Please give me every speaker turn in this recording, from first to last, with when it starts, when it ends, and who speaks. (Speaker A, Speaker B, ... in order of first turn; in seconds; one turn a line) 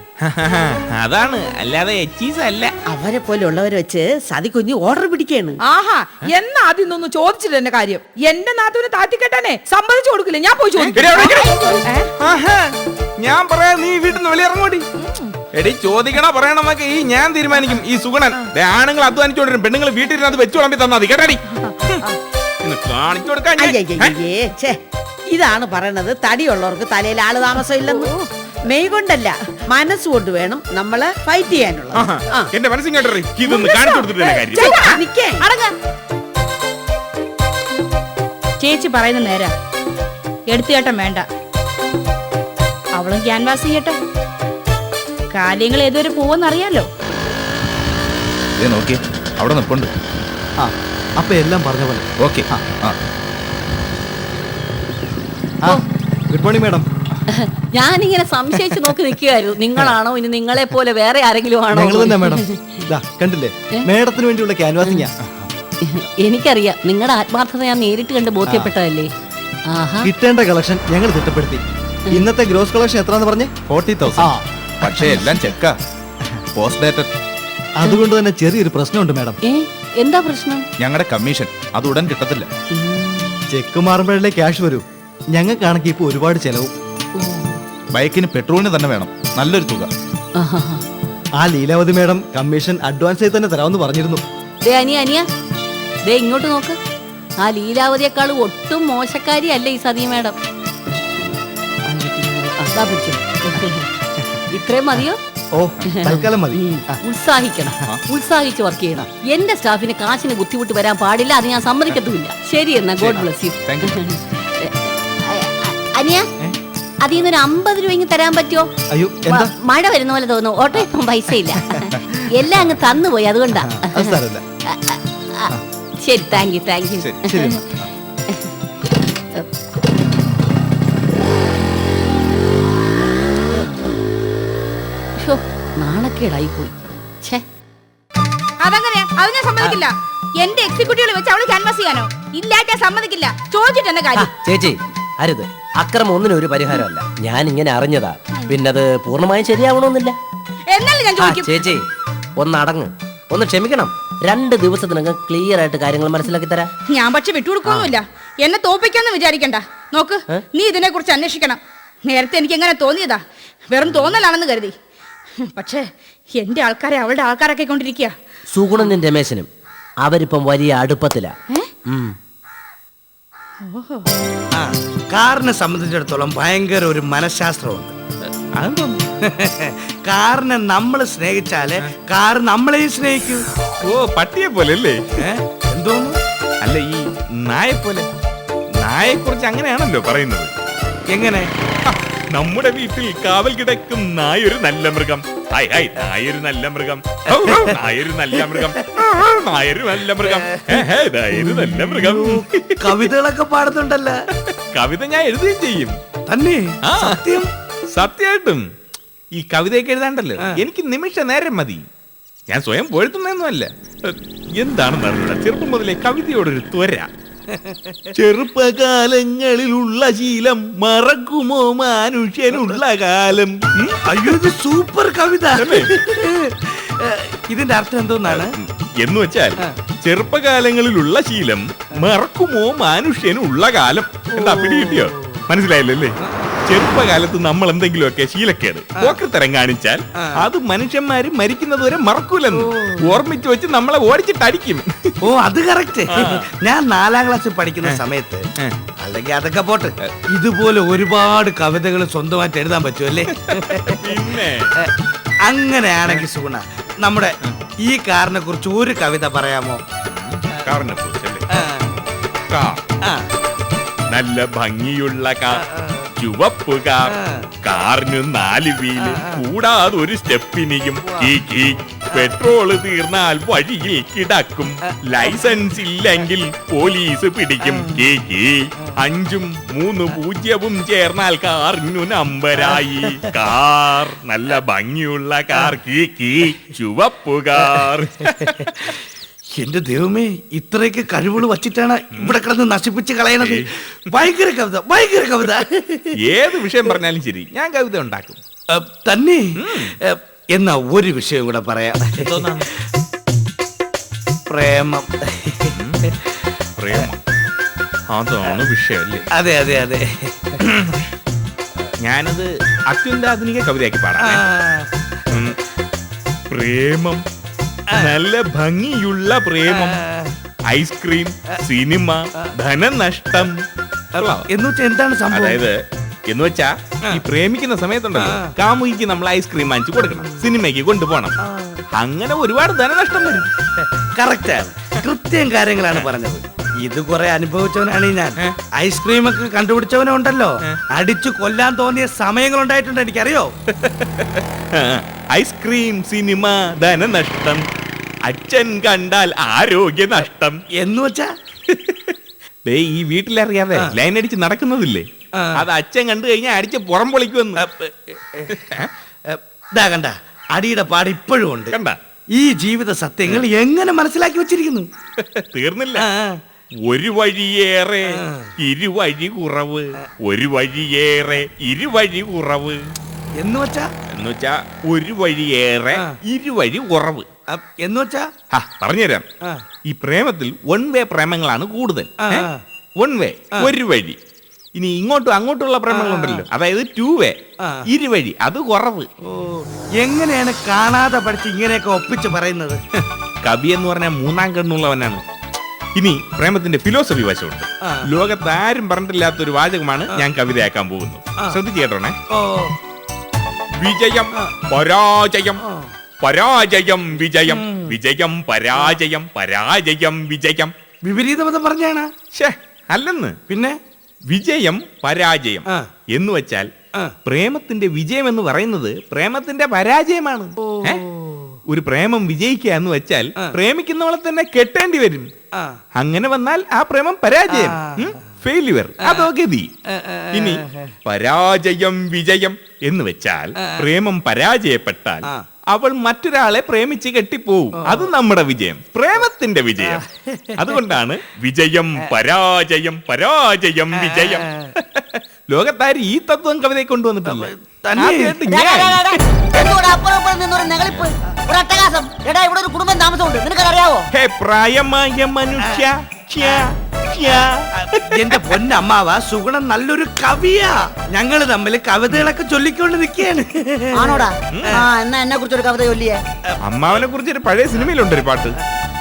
Speaker A: 0.2-2.7
Speaker B: 2.9-5.6
Speaker C: 5.7-12.1
Speaker A: 10.9-14.9
Speaker A: 15.5-22.1
Speaker A: 22.6-24.1
Speaker B: 23.6-24.8
Speaker B: 25.3-32.5
Speaker A: 31.9-34.8
Speaker D: 33.5-35.7
Speaker B: 34.5-35.5
Speaker D: 38.6-39.5
Speaker D: 40.5-41.2
Speaker D: 43.0-44.0
Speaker D: 45.3-46.9
Speaker E: 48.6-49.9
Speaker F: 50.6-52.8
Speaker E: 52.2-53.0
Speaker F: 55.6-56.9
Speaker G: 57.4-62.5
Speaker F: 61.7-65.1
Speaker G: 65.8-69.1
Speaker F: 68.5-68.7
Speaker G: 69.7-70.1
Speaker F: 70.0-73.5
Speaker E: 73.7-74.3
Speaker F: 74.2-75.1
Speaker E: 74.8-75.8
Speaker E: 76.5-77.1
Speaker F: 77.8-79.4
Speaker G: 79.4-80.6
Speaker E: 80.8-82.5
Speaker G: 82.7-83.4
Speaker F: 83.5-86.7
Speaker G: 87.2-87.6
Speaker E: 87.9-89.9
Speaker G: 90.4-90.8
Speaker F: 91.4-94.2
Speaker G: 94.6-95.3
Speaker G: 96.1-96.8
Speaker G: 97.4-100.4
Speaker G: 101.9-103.9
Speaker G: 104.5-105.2
Speaker F: 105.5-106.6
Speaker G: 105.9-116.3
Speaker E: 113.0-114.0
Speaker G: 117.0-118.7
Speaker F: 118.9-119.5
Speaker G: 119.2-127.6
Speaker F: 123.8-124.4
Speaker F: 127.2-127.6
Speaker G: 135.2-137.4
Speaker D: 138.6-144.3
Speaker H: 144.2-150.2
Speaker D: 150.7-151.6
Speaker H: 151.2-151.9
Speaker H: 152.4-156.7
Speaker D: 156.9-164.7
Speaker H: 157.7-158.0
Speaker D: 165.5-165.8
Speaker D: 166.3-168.1
Speaker H: 168.5-169.5
Speaker H: 170.0-171.3
Speaker H: 171.9-172.1
Speaker D: 173.6-174.1
Speaker I: 174.6-177.9
Speaker A: 178.6-179.0
Speaker I: 179.2-183.4
Speaker A: 183.8-185.0
Speaker I: 185.2-186.2
Speaker A: 186.6-188.1
Speaker A: 188.8-190.5
Speaker I: 191.1-191.5
Speaker A: 191.9-203.1
Speaker I: 197.3-197.8
Speaker I: 198.3-198.8
Speaker I: 200.2-204.2
Speaker A: 204.7-205.9
Speaker I: 206.3-207.5
Speaker A: 206.9-208.6
Speaker A: 209.3-211.8
Speaker A: 212.5-217.1
Speaker I: 217.5-218.0
Speaker A: 218.2-224.4
Speaker I: 224.1-228.5
Speaker A: 225.6-225.9
Speaker A: 228.2-236.1
Speaker I: 234.3-235.3
Speaker A: 236.7-244.9
Speaker I: 242.6-243.2
Speaker I: 245.2-248.5
Speaker A: 246.1-246.5
Speaker I: 249.0-254.0
Speaker A: 253.5-254.7
Speaker I: 255.4-259.8
Speaker A: 260.1-261.5
Speaker I: 261.5-261.9
Speaker A: 262.5-262.8
Speaker A: 264.1-265.6
Speaker I: 265.6-266.0
Speaker A: 266.2-267.1
Speaker I: 267.1-267.5
Speaker A: 267.6-288.9
Speaker I: 269.0-269.4
Speaker I: 271.1-271.4
Speaker I: 275.2-275.6
Speaker I: 277.6-278.0
Speaker I: 282.6-283.3
Speaker I: 289.6-296.1
Speaker A: 292.1-292.4
Speaker A: 293.4-293.7
Speaker A: 296.2-298.4
Speaker I: 298.7-299.5
Speaker A: 299.6-299.9
Speaker I: 300.0-302.7
Speaker A: 302.2-302.7
Speaker I: 304.5-305.7
Speaker A: 305.7-306.0
Speaker A: 306.8-307.2
Speaker A: 308.1-309.2
Speaker I: 309.3-310.7
Speaker A: 312.0-314.4
Speaker I: 314.2-314.9
Speaker A: 315.3-315.6
Speaker A: 316.5-317.2
Speaker A: 317.9-320.0
Speaker I: 319.7-320.3
Speaker A: 320.7-323.5
Speaker A: 324.1-324.4
Speaker I: 324.1-325.6
Speaker A: 325.3-325.8
Speaker A: 326.3-331.4
Speaker I: 328.1-328.5
Speaker I: 331.4-331.8
Speaker A: 331.9-333.5
Speaker I: 333.8-343.5
Speaker A: 343.8-347.6
Speaker A: 348.3-350.6
Speaker I: 350.8-351.3
Speaker A: 351.7-352.1
Speaker A: 352.7-357.6
Speaker I: 355.4-355.6
Speaker I: 357.6-358.7
Speaker I: 359.3-361.7
Speaker A: 361.7-362.0
Speaker I: 362.3-364.9
Speaker A: 365.2-366.1
Speaker I: 366.0-366.4
Speaker A: 366.9-372.8
Speaker I: 368.2-368.5
Speaker I: 373.4-373.9
Speaker A: 374.1-377.3
Speaker I: 377.5-378.3
Speaker A: 378.5-379.2
Speaker A: 379.9-382.5
Speaker I: 382.2-382.6
Speaker A: 383.0-384.2
Speaker A: 384.8-387.4
Speaker I: 385.9-386.4
Speaker A: 387.9-389.1
Speaker I: 389.2-392.8
Speaker A: 393.0-395.2
Speaker A: 396.0-402.2
Speaker I: 402.3-402.7
Speaker A: 403.8-405.6
Speaker I: 405.6-405.9
Speaker A: 406.2-410.7
Speaker I: 407.5-407.9
Speaker I: 411.0-412.1
Speaker A: 412.3-413.4
Speaker I: 413.5-413.8
Speaker A: 414.3-416.7
Speaker A: 417.2-421.0
Speaker I: 420.6-421.6
Speaker A: 421.7-425.3
Speaker I: 425.5-425.8
Speaker A: 426.0-429.7
Speaker I: 427.5-428.1
Speaker I: 429.0-429.3
Speaker I: 429.9-430.9
Speaker A: 430.3-440.0
Speaker I: 433.6-433.8
Speaker I: 437.9-438.1
Speaker I: 439.8-440.8
Speaker A: 440.6-449.2
Speaker I: 443.9-444.7
Speaker I: 447.3-448.4
Speaker J: 448.4-454.1
Speaker A: 454.1-458.5
Speaker I: 455.6-455.9
Speaker I: 458.1-464.2
Speaker J: 463.9-466.2
Speaker A: 464.5-464.8
Speaker A: 466.6-468.6